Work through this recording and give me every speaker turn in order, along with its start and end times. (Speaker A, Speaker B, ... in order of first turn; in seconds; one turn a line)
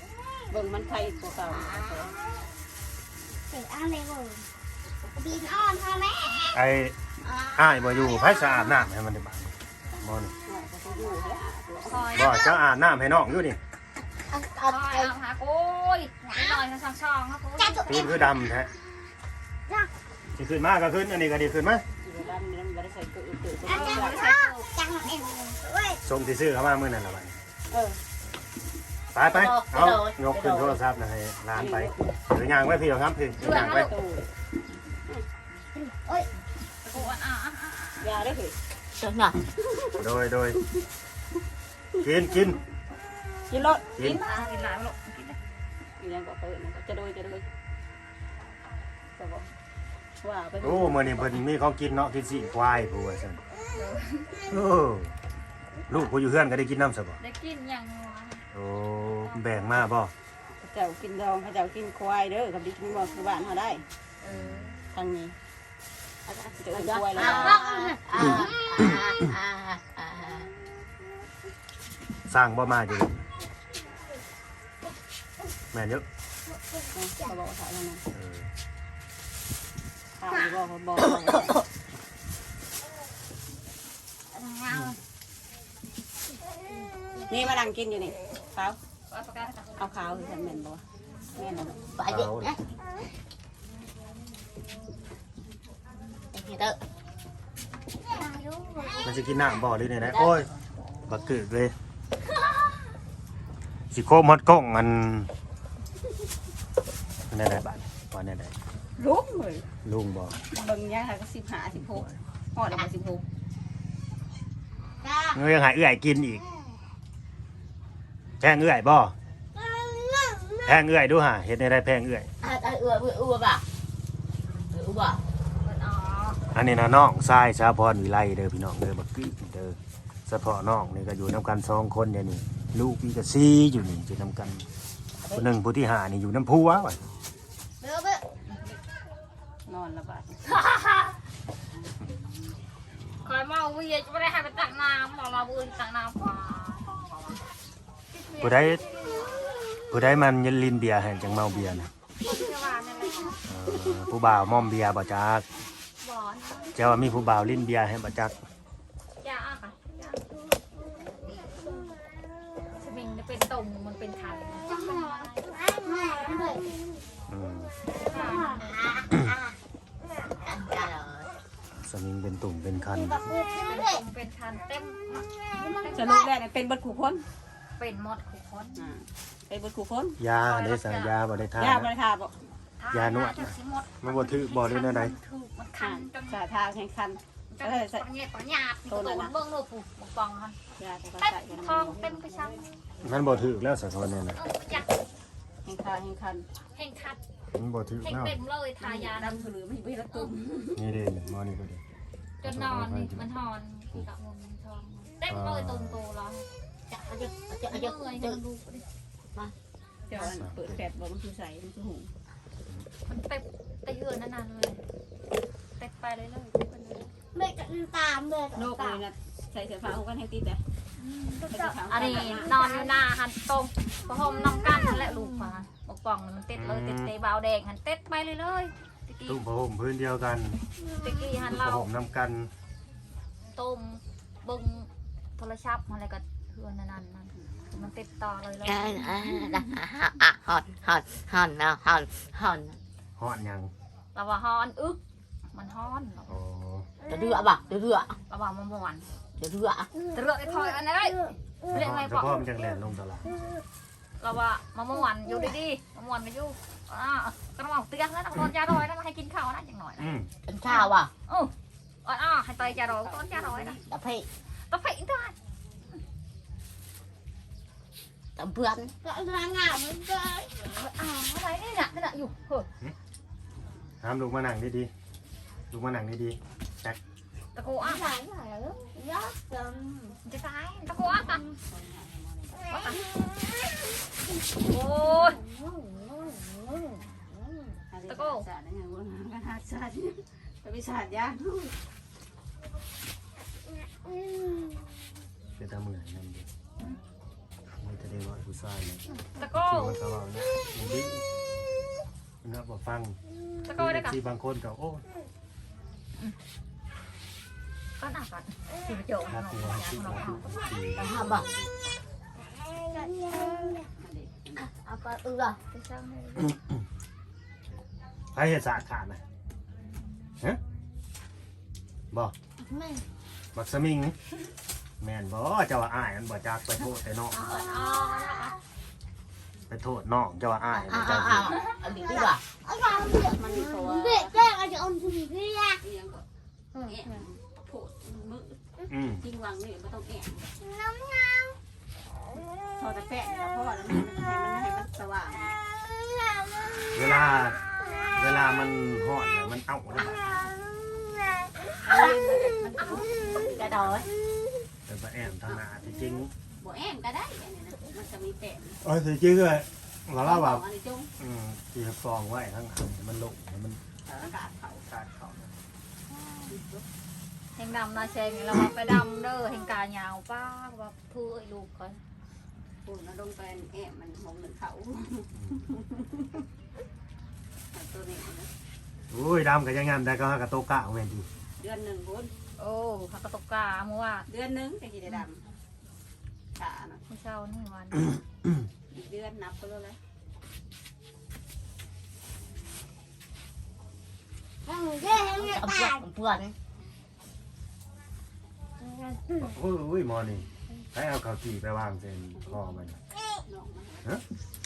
Speaker A: 0.5-2.1
Speaker B: 1.5-2.5
Speaker B: 3.5-4.5
Speaker B: 5.2-6.6
Speaker C: 6.5-7.0
Speaker B: 7.2-8.8
Speaker C: 7.5-10.3
Speaker A: 10.5-12.0
Speaker D: 11.9-12.5
Speaker C: 12.1-13.6
Speaker B: 14.3-15.1
Speaker D: 14.7-18.2
Speaker B: 17.6-18.5
Speaker C: 17.9-18.7
Speaker C: 20.4-21.8
Speaker A: 22.0-24.6
Speaker B: 23.6-26.0
Speaker D: 23.7-24.4
Speaker C: 26.0-27.4
Speaker A: 27.7-28.0
Speaker C: 29.1-33.9
Speaker E: 29.2-30.8
Speaker A: 31.5-32.1
Speaker D: 33.4-33.9
Speaker A: 33.4-34.3
Speaker B: 35.8-36.3
Speaker D: 36.9-38.2
Speaker A: 38.0-38.6
Speaker E: 39.0-39.4
Speaker C: 40.0-40.6
Speaker C: 42.0-42.6
Speaker A: 43.5-44.2
Speaker C: 44.0-44.2
Speaker D: 44.0-45.4
Speaker A: 46.0-47.5
Speaker A: 49.2-49.5
Speaker A: 50.2-51.4
Speaker C: 50.6-53.4
Speaker D: 53.8-54.3
Speaker C: 54.5-55.1
Speaker C: 55.9-57.2
Speaker D: 57.2-58.4
Speaker C: 58.5-60.1
Speaker D: 59.3-59.6
Speaker A: 60.6-63.8
Speaker D: 64.2-64.8
Speaker C: 64.3-64.9
Speaker A: 64.9-65.3
Speaker E: 66.3-70.5
Speaker B: 66.5-69.3
Speaker A: 66.6-67.6
Speaker C: 72.3-73.2
Speaker C: 75.7-76.1
Speaker A: 76.9-78.0
Speaker C: 78.1-78.5
Speaker A: 80.2-81.6
Speaker D: 84.3-85.0
Speaker A: 87.3-88.8
Speaker D: 89.1-89.9
Speaker A: 89.8-90.8
Speaker A: 91.4-91.8
Speaker E: 92.0-92.6
Speaker C: 92.1-92.6
Speaker E: 96.3-96.8
Speaker B: 98.1-99.3
Speaker C: 99.0-100.5
Speaker E: 100.0-100.4
Speaker C: 101.1-101.7
Speaker C: 103.9-105.3
Speaker C: 107.3-108.5
Speaker A: 109.0-109.7
Speaker C: 109.8-110.4
Speaker A: 110.5-113.2
Speaker B: 115.0-115.4
Speaker C: 115.3-116.4
Speaker C: 118.4-119.1
Speaker B: 119.5-120.8
Speaker C: 120.6-122.3
Speaker E: 122.4-123.6
Speaker E: 124.7-125.2
Speaker D: 125.6-126.4
Speaker C: 126.5-134.7
Speaker C: 135.3-137.0
Speaker B: 137.8-138.2
Speaker A: 139.7-140.4
Speaker D: 140.5-141.1
Speaker D: 143.2-147.3
Speaker D: 148.1-149.4
Speaker C: 148.4-148.8
Speaker C: 149.9-151.9
Speaker D: 152.2-153.4
Speaker C: 153.4-155.5
Speaker D: 156.0-156.7
Speaker C: 156.8-158.3
Speaker D: 159.2-160.2
Speaker D: 162.8-166.6
Speaker B: 164.7-167.0
Speaker C: 167.3-167.7
Speaker D: 168.0-168.8
Speaker B: 168.1-169.5
Speaker E: 170.4-171.2
Speaker B: 170.5-171.2
Speaker C: 171.8-173.3
Speaker B: 172.9-174.0
Speaker D: 173.6-176.2
Speaker B: 175.5-176.3
Speaker A: 175.9-177.2
Speaker D: 177.8-178.9
Speaker A: 178.8-180.2
Speaker C: 180.2-181.9
Speaker D: 180.5-181.1
Speaker A: 181.6-182.3
Speaker D: 182.8-186.4
Speaker C: 182.9-185.1
Speaker A: 185.8-188.1
Speaker D: 187.5-190.6
Speaker A: 188.9-189.3
Speaker A: 190.8-192.1
Speaker D: 191.2-192.8
Speaker C: 193.0-194.4
Speaker D: 194.3-194.9
Speaker A: 195.6-196.5
Speaker D: 196.8-197.2
Speaker C: 197.5-198.4
Speaker D: 198.0-199.5
Speaker A: 198.8-200.8
Speaker C: 200.8-201.8
Speaker D: 202.4-206.4
Speaker C: 202.4-203.3
Speaker C: 205.2-206.0
Speaker E: 206.9-208.4
Speaker D: 207.6-208.8
Speaker A: 210.1-212.1
Speaker C: 210.2-210.8
Speaker D: 213.1-214.8
Speaker D: 215.8-217.1
Speaker B: 217.3-219.1
Speaker A: 218.5-220.6
Speaker D: 221.0-229.4
Speaker B: 221.4-222.9
Speaker A: 221.5-222.6
Speaker B: 224.3-225.5
Speaker C: 226.6-227.1
Speaker C: 229.3-230.6
Speaker B: 230.9-231.3
Speaker D: 231.0-231.9
Speaker C: 231.4-232.5
Speaker D: 233.5-239.1
Speaker E: 238.6-242.8
Speaker B: 239.0-239.4
Speaker C: 243.2-243.7
Speaker D: 244.1-245.0
Speaker D: 245.5-246.3
Speaker C: 246.3-246.9
Speaker B: 247.1-247.6
Speaker E: 247.1-248.2
Speaker D: 248.3-249.1
Speaker E: 249.4-249.9
Speaker B: 249.8-250.2
Speaker D: 250.1-252.4
Speaker C: 251.7-253.5
Speaker D: 254.2-260.1
Speaker C: 260.0-260.3
Speaker E: 260.5-261.1
Speaker D: 260.7-261.5
Speaker D: 262.0-263.8
Speaker A: 262.6-263.8
Speaker E: 263.9-264.3
Speaker D: 264.7-265.4
Speaker E: 268.4-268.9
Speaker B: 268.9-270.8
Speaker D: 270.7-272.7
Speaker C: 274.0-274.9
Speaker C: 275.7-277.0
Speaker D: 277.6-278.1
Speaker B: 277.8-280.2
Speaker D: 280.2-281.6
Speaker A: 281.7-282.6
Speaker B: 282.6-283.8
Speaker D: 282.7-283.1
Speaker D: 284.6-285.4
Speaker B: 285.0-287.8
Speaker A: 287.9-291.7
Speaker D: 288.1-288.5
Speaker B: 294.1-294.7
Speaker C: 295.6-296.5
Speaker C: 297.8-301.2
Speaker D: 299.4-300.0
Speaker C: 302.4-303.2
Speaker D: 303.6-304.2
Speaker C: 303.8-305.0
Speaker D: 308.0-310.6
Speaker C: 309.3-311.7
Speaker E: 311.0-311.4
Speaker B: 312.4-313.9
Speaker A: 314.0-314.7
Speaker B: 314.6-315.2
Speaker E: 314.8-315.6
Speaker D: 315.7-316.6
Speaker C: 316.5-316.7
Speaker C: 318.3-319.2
Speaker B: 322.6-323.1
Speaker C: 323.6-324.1
Speaker C: 325.0-327.4
Speaker B: 327.3-328.4
Speaker D: 327.4-328.6
Speaker C: 329.7-331.6
Speaker E: 330.7-332.4
Speaker B: 331.2-335.8
Speaker A: 333.0-334.4
Speaker A: 335.8-338.6
Speaker B: 336.8-337.2
Speaker C: 338.9-339.2
Speaker A: 339.2-340.6
Speaker B: 340.6-341.6
Speaker A: 342.8-345.6
Speaker B: 346.5-347.1
Speaker C: 346.9-347.6
Speaker C: 348.1-350.2
Speaker B: 350.1-351.8
Speaker A: 351.8-353.6
Speaker B: 352.8-353.7
Speaker E: 353.5-354.1
Speaker C: 353.7-354.1
Speaker C: 354.9-356.3
Speaker A: 356.6-358.8
Speaker C: 358.8-360.6
Speaker A: 360.2-361.1
Speaker C: 361.2-363.8
Speaker A: 364.1-364.9
Speaker C: 364.9-365.5
Speaker D: 366.2-366.5
Speaker A: 366.5-366.8
Speaker D: 367.6-372.0
Speaker A: 372.9-376.4
Speaker C: 375.4-375.6
Speaker A: 377.7-378.5
Speaker C: 379.1-381.2
Speaker A: 381.6-382.3
Speaker D: 382.6-384.3
Speaker A: 384.3-385.4
Speaker A: 386.6-387.0
Speaker D: 387.1-388.2
Speaker A: 388.9-390.0
Speaker B: 394.6-396.1
Speaker E: 395.2-396.5
Speaker B: 398.8-399.5
Speaker C: 399.4-403.0
Speaker A: 403.5-404.1